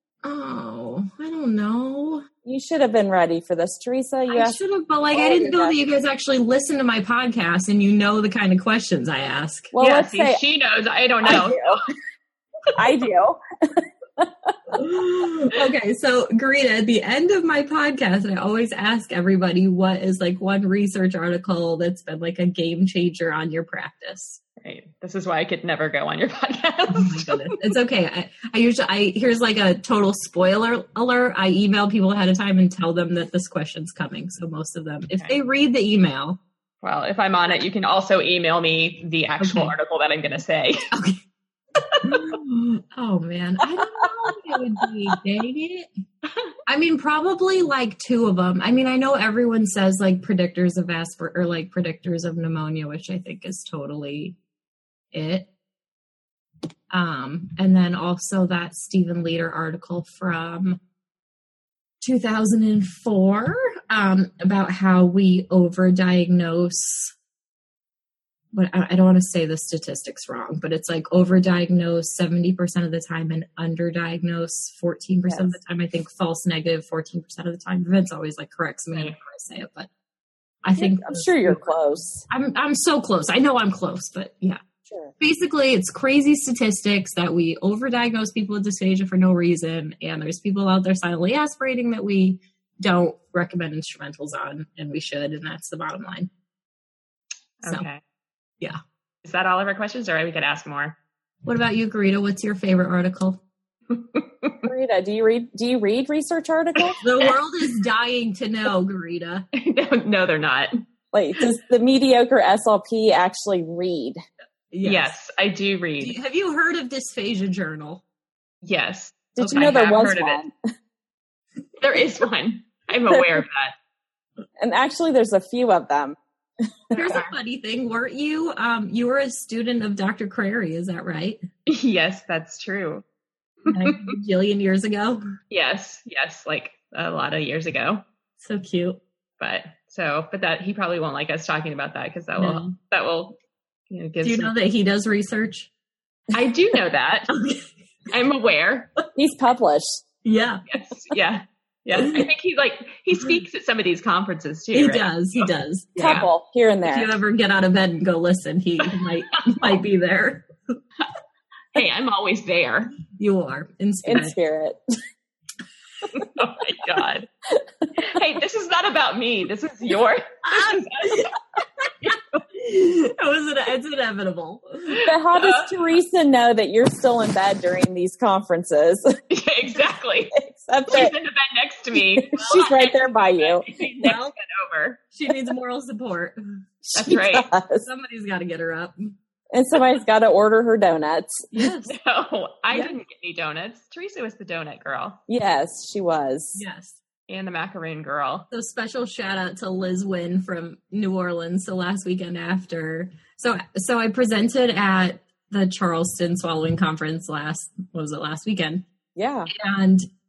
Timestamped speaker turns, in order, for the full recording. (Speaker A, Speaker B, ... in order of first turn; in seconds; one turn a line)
Speaker A: 0.2-2.2
Speaker B: 2.4-4.6
Speaker A: 4.3-9.7
Speaker B: 5.1-5.8
Speaker B: 9.7-10.4
Speaker C: 9.8-11.8
Speaker B: 11.2-11.7
Speaker B: 12.8-14.6
Speaker A: 14.7-24.4
Speaker C: 24.6-27.6
Speaker A: 26.9-36.4
Speaker C: 36.8-40.8
Speaker A: 39.4-39.7
Speaker A: 40.9-41.2
Speaker A: 42.0-45.9
Speaker A: 46.7-54.4
Speaker A: 55.1-55.5
Speaker A: 56.9-60.8
Speaker A: 62.0-67.1
Speaker A: 68.5-79.9
Speaker B: 75.3-75.6
Speaker A: 80.6-84.6
Speaker B: 80.8-82.2
Speaker B: 84.9-85.1
Speaker A: 85.2-96.3
Speaker C: 97.6-98.0
Speaker C: 99.2-101.0
Speaker A: 101.5-103.4
Speaker C: 103.9-104.7
Speaker B: 104.6-107.0
Speaker A: 107.0-109.5
Speaker C: 109.5-110.7
Speaker B: 111.1-114.2
Speaker A: 114.7-115.2
Speaker C: 114.8-116.2
Speaker A: 116.0-118.0
Speaker C: 118.6-120.4
Speaker B: 119.4-120.5
Speaker A: 119.4-119.7
Speaker C: 121.8-123.8
Speaker B: 123.1-123.4
Speaker B: 124.6-126.2
Speaker B: 126.9-127.2
Speaker A: 126.9-131.4
Speaker C: 127.0-127.3
Speaker C: 131.7-133.0
Speaker C: 133.7-134.2
Speaker A: 133.7-135.2
Speaker C: 135.5-138.0
Speaker A: 138.4-139.0
Speaker C: 139.4-143.4
Speaker A: 142.4-142.7
Speaker C: 143.9-144.5
Speaker A: 144.2-145.7
Speaker C: 146.3-147.3
Speaker A: 147.3-147.7
Speaker C: 148.1-148.9
Speaker B: 149.2-149.9
Speaker A: 150.2-150.6
Speaker C: 150.7-156.3
Speaker A: 152.0-152.3
Speaker A: 154.7-156.3
Speaker B: 156.0-157.1
Speaker A: 156.8-160.4
Speaker C: 161.7-162.9
Speaker A: 163.2-164.4
Speaker B: 164.1-164.8
Speaker C: 166.1-167.3
Speaker B: 167.6-167.9
Speaker C: 168.0-171.4
Speaker A: 170.4-171.3
Speaker A: 172.0-175.0
Speaker B: 175.0-179.1
Speaker C: 175.3-175.8
Speaker C: 179.3-180.4
Speaker B: 180.4-181.1
Speaker C: 180.9-185.0
Speaker B: 181.9-183.7
Speaker A: 182.4-182.7
Speaker A: 184.0-184.3
Speaker A: 185.1-186.4
Speaker B: 186.8-187.9
Speaker C: 186.9-187.5
Speaker A: 187.8-189.1
Speaker B: 189.5-191.5
Speaker A: 191.5-191.9
Speaker C: 191.9-195.2
Speaker B: 195.3-196.6
Speaker A: 196.6-197.0
Speaker C: 197.3-198.5
Speaker A: 198.5-208.8
Speaker B: 209.2-209.5
Speaker A: 209.5-210.1